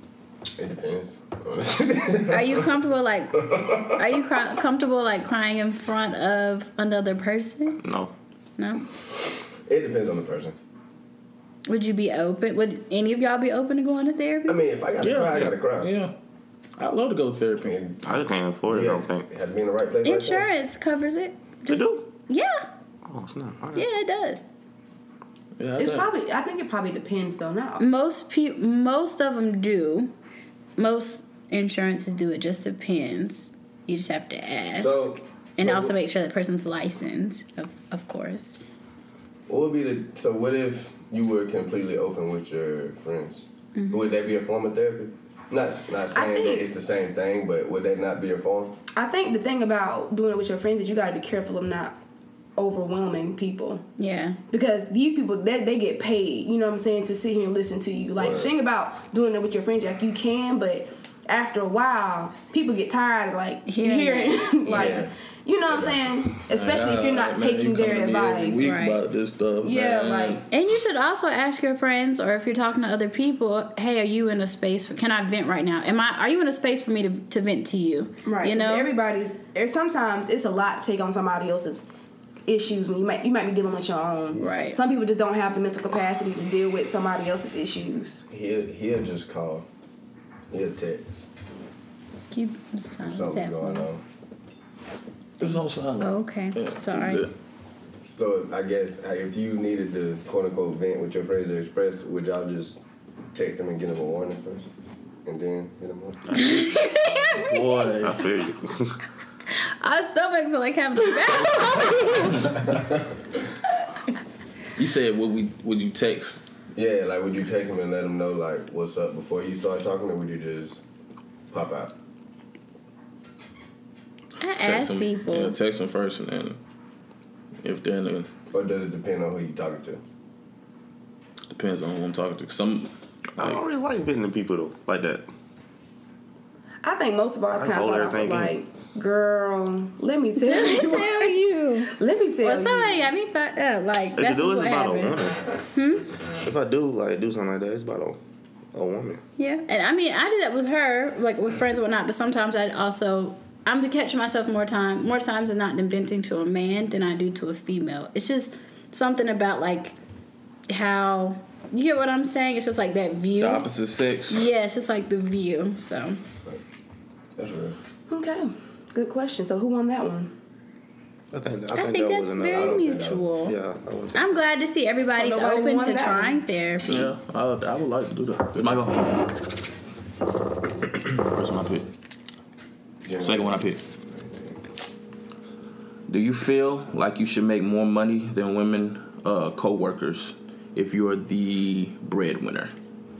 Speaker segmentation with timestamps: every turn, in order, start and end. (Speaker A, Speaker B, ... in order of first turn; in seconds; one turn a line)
Speaker A: 0.6-2.7
Speaker B: 2.3-7.8
Speaker A: 3.4-4.0
Speaker C: 7.8-8.1
Speaker B: 8.6-8.8
Speaker A: 9.7-10.6
Speaker B: 11.7-14.6
Speaker A: 14.5-15.9
Speaker D: 15.0-16.1
Speaker D: 16.8-17.8
Speaker A: 17.6-20.5
Speaker C: 18.0-19.3
Speaker B: 20.0-22.7
Speaker C: 21.7-22.1
Speaker C: 23.0-23.9
Speaker B: 23.7-24.5
Speaker D: 25.6-26.1
Speaker E: 25.8-27.8
Speaker B: 27.8-30.1
Speaker B: 30.8-38.6
Speaker A: 34.8-35.9
Speaker A: 39.5-48.8
Speaker B: 43.8-44.0
Speaker E: 46.1-46.7
Speaker E: 48.9-52.0
Speaker E: 52.6-53.9
Speaker B: 54.0-54.4
Speaker E: 54.5-68.7
Speaker A: 58.2-58.5
Speaker B: 63.7-65.0
Speaker A: 64.7-65.1
Speaker A: 65.7-66.1
Speaker D: 66.5-70.4
Speaker B: 68.6-69.0
Speaker E: 69.6-70.5
Speaker B: 70.5-78.9
Speaker E: 78.2-81.9
Speaker E: 82.5-88.2
Speaker B: 84.4-84.8
Speaker A: 88.3-89.7
Speaker A: 90.5-91.3
Speaker B: 92.3-93.9
Speaker A: 93.0-94.0
Speaker B: 95.4-97.3
Speaker D: 95.4-97.3
Speaker A: 98.2-102.8
Speaker A: 103.3-104.7
Speaker A: 105.2-106.4
Speaker B: 106.3-108.0
Speaker D: 107.4-108.2
Speaker C: 108.0-109.0
Speaker B: 109.6-112.6
Speaker A: 112.5-113.1
Speaker D: 114.8-116.4
Speaker A: 116.8-120.8
Speaker A: 121.5-121.9
Speaker B: 124.4-125.6
Speaker D: 124.6-126.6
Speaker D: 127.6-128.3
Speaker A: 128.5-130.0
Speaker D: 131.5-133.6
Speaker C: 133.4-135.3
Speaker E: 136.8-143.1
Speaker C: 137.6-138.6
Speaker B: 140.4-145.2
Speaker C: 144.2-145.4
Speaker B: 145.7-146.1
Speaker C: 146.4-148.2
Speaker C: 148.7-149.2
Speaker B: 149.4-159.9
Speaker B: 160.7-163.7
Speaker D: 163.4-164.5
Speaker B: 164.3-166.2
Speaker A: 167.4-167.8
Speaker E: 168.1-170.3
Speaker C: 171.3-172.9
Speaker B: 171.7-173.6
Speaker A: 172.5-173.2
Speaker C: 173.4-174.4
Speaker B: 174.1-177.1
Speaker E: 175.1-176.4
Speaker D: 176.9-179.3
Speaker D: 181.0-181.9
Speaker A: 183.1-184.6
Speaker D: 183.2-183.8
Speaker D: 186.1-192.7